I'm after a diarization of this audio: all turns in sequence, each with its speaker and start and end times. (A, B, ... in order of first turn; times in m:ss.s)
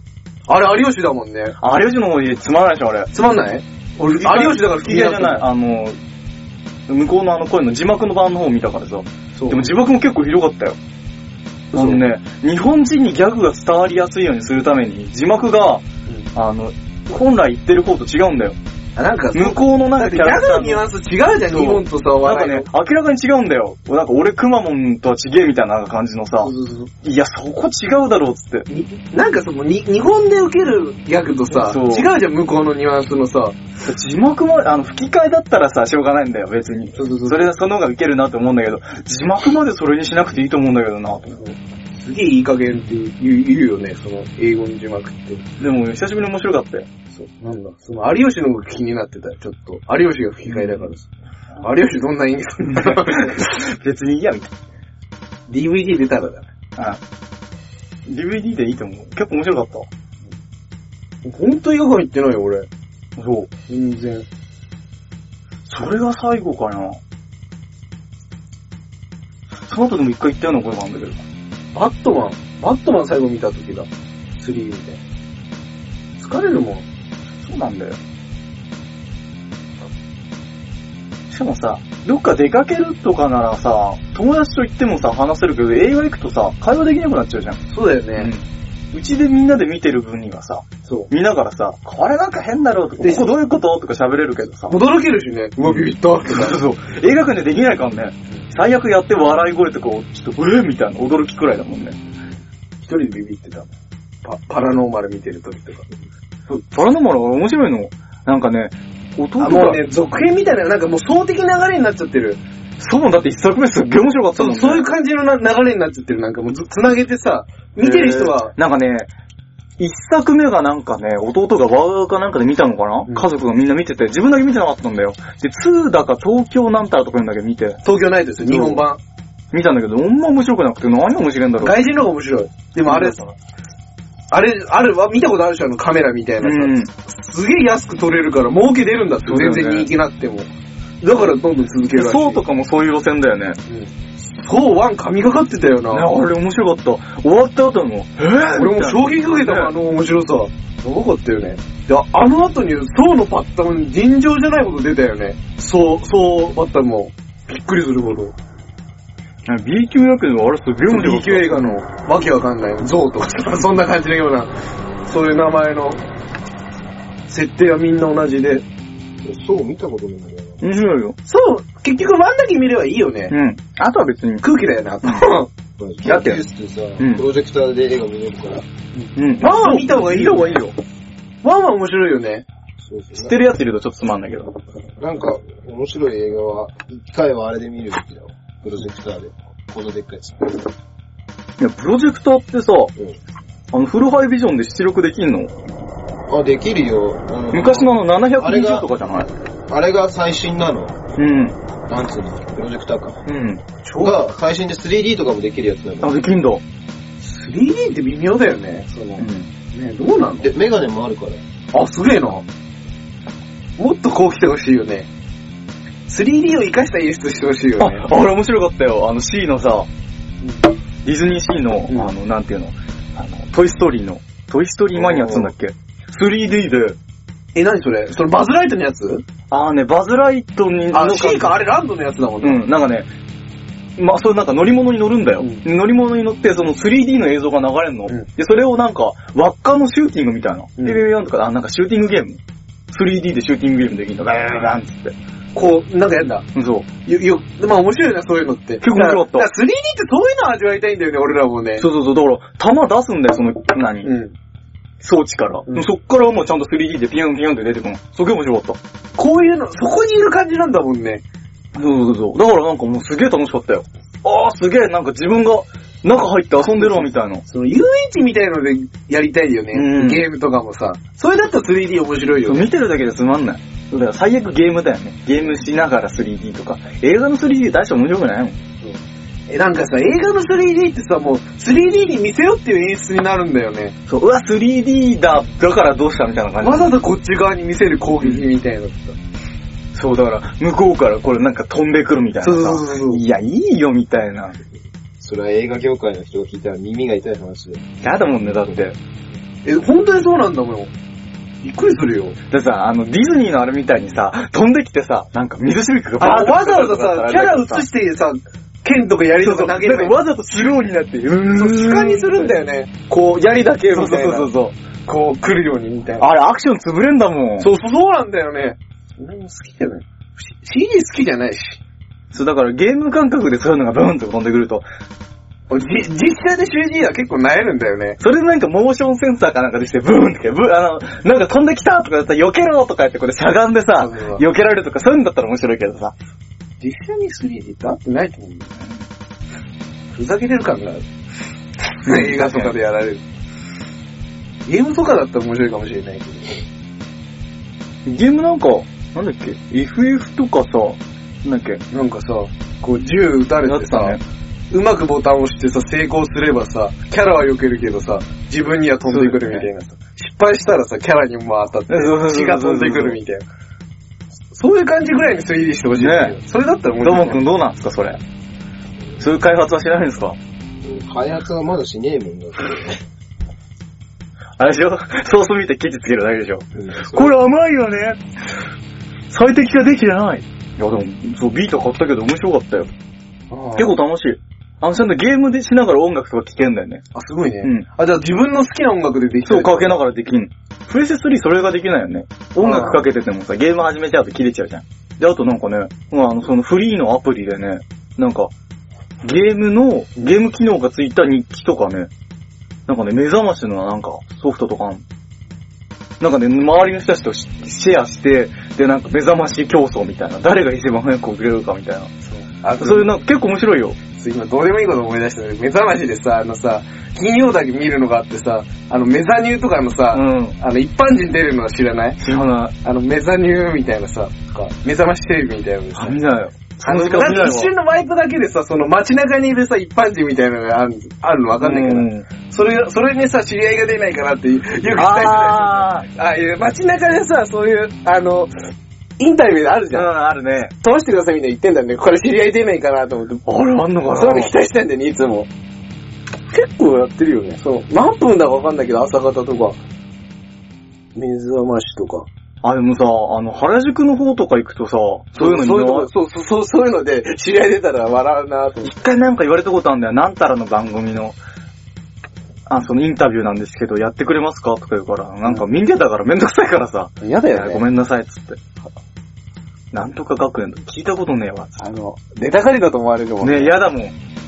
0:00.5-0:01.6 A
0:01.6-0:03.1 B
0:03.1-0:05.4 A
0:04.1-0:06.0 B
0:06.9-0:10.8 B
0:09.4-0:09.7 A
0:11.7-0:12.0 A
0:11.7-0:18.6 B
0:19.0-0:22.7 A
0:19.3-0:20.8 B
0:21.5-0:26.5 B
0:26.4-0:26.9 A
0:27.0-0:28.7 B
0:28.7-0:33.6 A
0:31.5-0:32.1 B
0:33.8-0:41.5 B
0:36.9-0:37.5 A
0:41.9-0:45.4 A
0:45.6-0:46.9 B
0:47.1-0:51.1 A
0:50.5-0:50.9 B
0:51.6-0:53.4 A
0:52.6-0:54.5 B
0:55.5-0:56.5 A
0:58.0-0:59.9 B
1:01.2-1:02.7 A
1:03.2-1:03.5 B
1:03.7-1:04.2 A
1:05.7-1:07.0 B
1:09.7-1:11.2 B
1:11.7-1:15.0 A
1:16.2-1:16.8 A
1:17.4-1:18.0 B
1:21.3-1:27.6 B
1:27.7-1:28.3 A
1:28.2-1:34.8 B
1:33.0-1:33.3 A
1:34.7-1:36.6 A
1:35.6-1:42.0 B
1:42.8-1:43.7 A
1:44.2-1:45.9 A
1:46.7-1:49.8 B
1:49.4-1:52.4 A
1:52.8-1:54.9 B
1:54.3-1:58.5 A
1:57.8-1:59.1 B
1:59.8-2:07.8 B
2:07.8-2:09.0 A
2:08.4-2:08.8 B
2:09.5-2:11.8 B
2:11.6-2:13.2 A
2:12.8-2:13.3 B
2:14.3-2:20.5 A
2:16.4-2:16.9 B
2:19.2-2:19.9 B
2:21.0-2:22.4 A
2:21.9-2:23.6 B
2:23.7-2:26.1 A
2:25.9-2:29.7 B
2:28.5-2:38.3 A
2:39.4-2:41.8 B
2:40.9-2:44.5 A
2:45.0-2:46.0 A
2:47.3-2:48.6 A
2:49.2-2:50.6 C
2:50.6-2:51.2 B
2:51.2-2:53.3 A
2:53.3-2:54.4 B
2:54.4-2:55.5 A
2:55.0-2:55.3 B
2:55.8-2:58.6 C
2:56.0-2:56.4 B
2:57.0-2:57.2 B
2:58.9-3:00.6 A
2:59.1-3:00.8 B
3:01.4-3:02.4 A
3:02.8-3:03.4 C
3:03.2-3:04.5 B
3:05.0-3:10.7 C
3:11.6-3:12.9 B
3:13.7-3:15.5 B
3:16.3-3:18.9 C
3:17.5-3:19.3 B
3:19.7-3:21.0 C
3:21.2-3:21.6 B
3:21.9-3:23.2 C
3:23.2-3:23.6 B
3:23.8-3:24.3 A
3:24.0-3:26.2 C
3:26.0-3:26.6 B
3:27.2-3:30.5 A
3:29.2-3:29.5 B
3:30.4-3:31.4 C
3:31.7-3:32.4 A
3:33.8-3:35.1 A
3:36.1-3:38.0 A
3:37.8-3:39.9 B
3:40.4-3:40.7 A
3:41.0-3:47.0 B
3:44.9-3:45.5 A
3:47.5-3:49.2 A
3:49.5-3:51.6 B
3:50.9-3:52.6 A
3:52.4-3:53.1 B
3:54.0-4:02.4 B
3:55.4-3:55.6 A
4:00.8-4:01.0 A
4:02.9-4:05.1 B
4:05.5-4:06.4 A
4:06.5-4:06.9 B
4:07.0-4:11.9 A
4:08.8-4:09.5 B
4:11.8-4:14.1 B
4:14.0-4:14.3 A
4:15.0-4:18.8 B
4:19.2-4:21.2 A
4:21.7-4:27.4 B
4:26.7-4:32.7 A
4:29.7-4:30.2 B
4:32.4-4:38.6 B
4:39.5-4:43.9 A
4:44.1-4:47.0 B
4:46.6-4:49.2 A
4:49.9-4:54.6 B
4:52.4-4:53.2 A
4:55.2-4:57.9 C
4:58.0-4:59.0 B
4:59.6-5:00.9 A
5:01.6-5:02.4 A
5:02.5-5:07.8 B
5:06.2-5:10.2 A
5:09.4-5:12.5 B
5:11.5-5:14.5 A
5:13.9-5:14.8 B
5:15.0-5:16.3 A
5:16.2-5:17.7 B
5:17.6-5:21.8 A
5:22.3-5:24.8 B
5:25.7-5:28.2 A
5:28.2-5:36.1 B
5:34.0-5:34.4 A
5:36.8-5:38.7 A
5:40.1-5:41.0 A
5:42.0-5:43.2 A
5:42.0-5:42.7 B
5:44.6-5:46.6 A
5:48.0-5:51.8 B
5:51.9-5:54.2 A
5:53.6-5:54.2 B
5:54.7-6:03.4 A
5:59.1-5:59.7 B
6:01.9-6:03.2 B
6:04.5-6:07.4 A
6:05.9-6:06.4 B
6:07.0-6:08.2 B
6:09.2-6:10.4 B
6:10.8-6:13.0 C
6:14.6-6:18.2 B
6:16.7-6:17.3 C
6:19.3-6:22.9 B
6:23.5-6:23.9 A
6:23.8-6:27.0 B
6:27.1-6:30.0 A
6:29.4-6:38.5 B
6:32.6-6:33.0 A
6:39.2-6:42.1 B
6:42.9-6:45.0 B
6:46.2-6:52.1 B
6:52.3-6:53.1 A
6:52.8-6:54.0 B
6:54.1-7:02.2 A
7:00.1-7:00.6 B
7:02.2-7:02.7 B
7:02.8-7:06.2 A
7:06.0-7:07.7 B
7:06.8-7:18.5 A
7:11.6-7:12.3 B
7:14.9-7:16.1 B
7:19.2-7:20.1 A
7:19.9-7:20.7 B
7:20.8-7:23.4 A
7:23.4-7:24.5 B
7:24.1-7:25.5 A
7:26.5-7:29.8 A
7:31.1-7:32.3 A
7:32.6-7:36.1 B
7:35.3-7:38.9 A
7:38.8-7:41.4 B
7:42.7-7:48.6 B
7:47.2-7:47.8 A
7:49.9-7:51.8 B
7:51.8-7:53.8 A
7:53.4-7:54.1 B